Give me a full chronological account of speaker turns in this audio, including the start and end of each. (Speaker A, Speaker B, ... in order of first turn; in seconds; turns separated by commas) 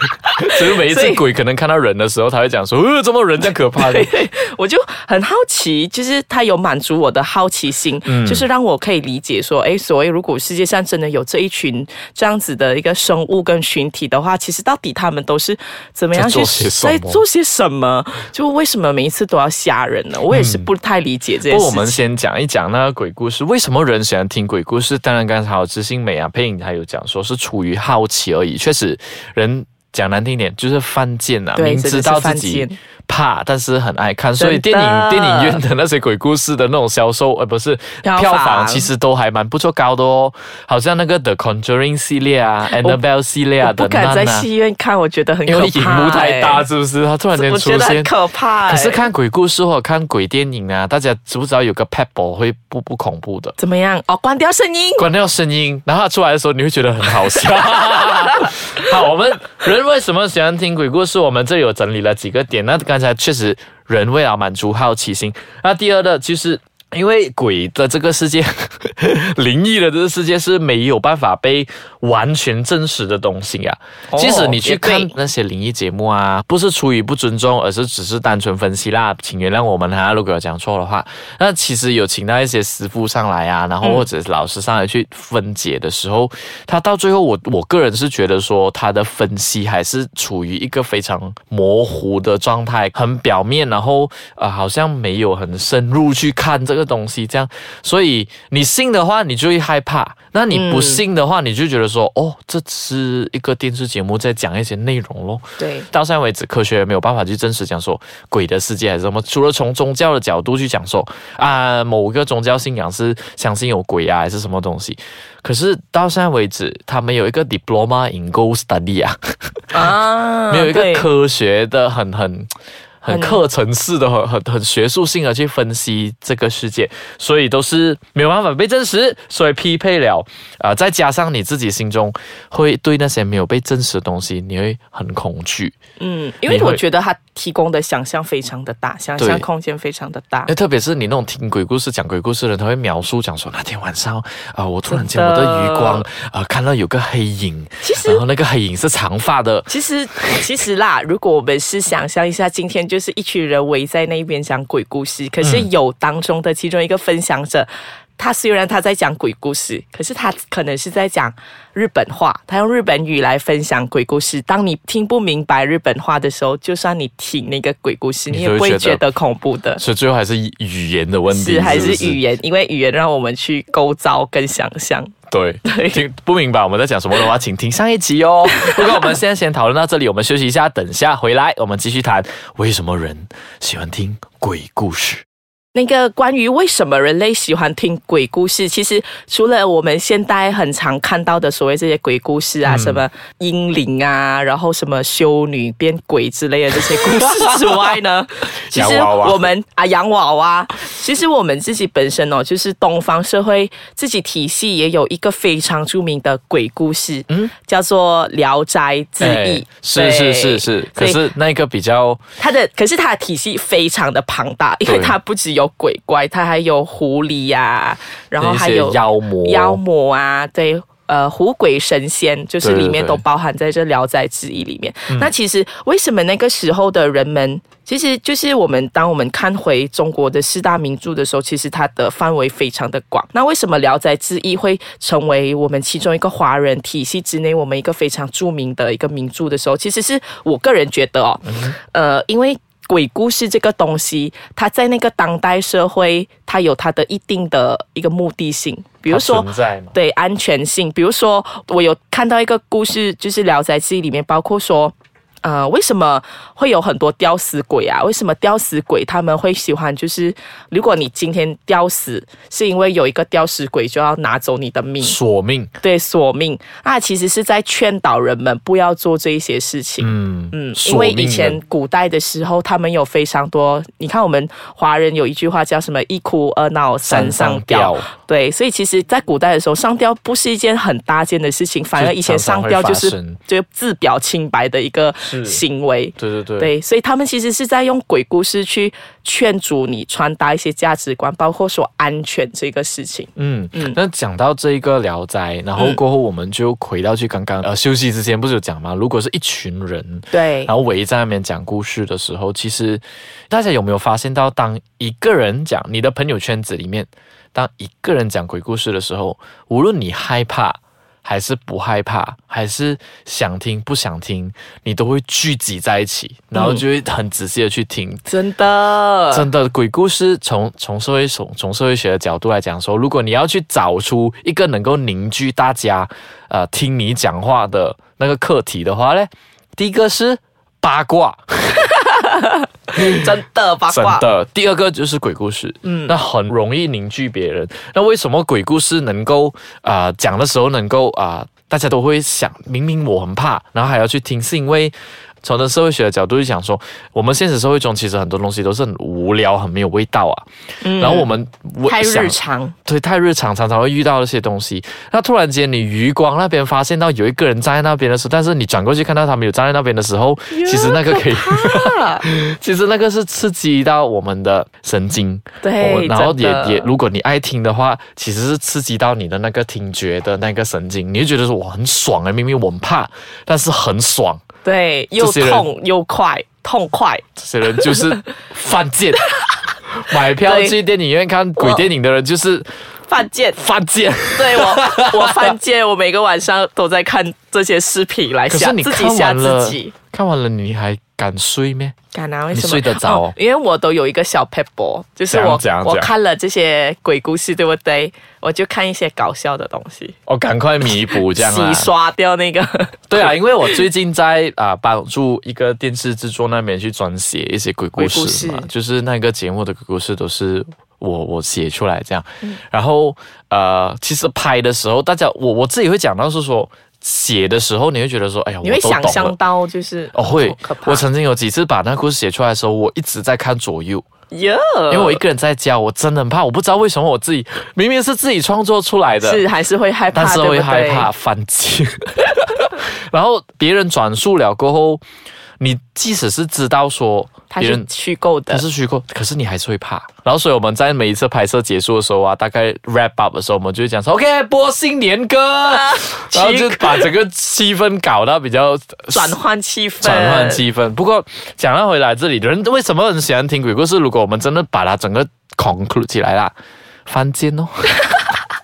Speaker A: 0.2-1.2, Speaker B: 0.4-4.1, Speaker A: 3.8-22.0, Speaker B: 8.1-8.5, Speaker B: 16.1-17.2, Speaker B: 20.3-20.7, Speaker B: 21.5-44.5, Speaker A: 31.6-32.8, Speaker A: 34.4-35.6, Speaker A: 38.0-38.9, Speaker A: 42.7-43.0, Speaker A: 43.6-46.6, Speaker B: 45.5-48.1, Speaker A: 47.3-49.0, Speaker B: 48.6-53.6, Speaker A: 53.6-55.1, Speaker B: 55.0-119.8, Speaker A: 74.1-75.1, Speaker A: 100.5-101.0, Speaker A: 105.6-105.9, Speaker A: 119.7-121.1, Speaker B: 120.5-122.5, Speaker B: 123.0-135.7, Speaker A: 123.1-123.4, Speaker A: 136.0-140.5, Speaker B: 136.5-136.8, Speaker B: 139.2-139.4, Speaker B: 140.5-149.7, Speaker A: 144.9-146.1, Speaker A: 147.8-148.2, Speaker A: 149.7-169.8, Speaker B: 155.4-155.7, Speaker B: 168.3-169.1, Speaker B: 169.8-172.2, Speaker A: 171.3-176.0, Speaker B: 175.3-185.2, Speaker A: 178.5-179.1, Speaker A: 185.8-211.2, Speaker B: 192.7-193.1, Speaker B: 196.9-197.9, Speaker B: 198.7-199.5, Speaker B: 209.2-212.2, Speaker A: 212.4-265.2, Speaker B: 214.9-215.2, Speaker B: 218.4-219.8, Speaker B: 222.6-223.2, Speaker B: 241.4-241.8, Speaker B: 249.1-249.9, Speaker B: 265.0-265.7, Speaker A: 265.8-294.0, Speaker B: 270.0-271.6, Speaker B: 277.0-278.1, Speaker B: 282.0-283.4, Speaker B: 285.2-285.6, Speaker B: 286.2-286.7, Speaker B: 293.4-318.2, Speaker A: 300.3-300.7, Speaker A: 316.6-316.8, Speaker A: 318.3-319.5, Speaker B: 319.3-331.9, Speaker A: 332.0-334.3, Speaker B: 332.9-333.4, Speaker B: 333.9-374.4, Speaker A: 335.9-336.1, Speaker A: 350.8-351.3, Speaker A: 351.9-352.8, Speaker A: 360.5-362.2, Speaker A: 365.6-366.9, Speaker A: 374.6-377.2, Speaker B: 375.2-375.7, Speaker B: 377.4-379.2, Speaker A: 377.8-378.1, Speaker B: 379.9-382.7, Speaker A: 380.4-380.8, Speaker A: 381.6-381.8, Speaker A: 383.1-383.7, Speaker B: 383.6-385.5, Speaker A: 384.3-389.9, Speaker B: 388.5-391.9, Speaker A: 392.1-400.1, Speaker B: 392.5-393.4, Speaker B: 395.3-396.1, Speaker B: 400.3-401.9, Speaker A: 401.2-403.3, Speaker B: 403.1-419.4, Speaker A: 408.0-408.7, Speaker A: 418.6-421.1, Speaker B: 420.1-424.1, Speaker A: 424.3-425.2, Speaker B: 424.9-429.4, Speaker A: 429.2-431.1, Speaker B: 430.1-435.0, Speaker B: 435.6-437.9, Speaker A: 437.5-438.6, Speaker B: 438.5-449.4, Speaker A: 445.7-447.1, Speaker A: 449.1-450.6, Speaker B: 450.0-456.5, Speaker B: 457.1-458.1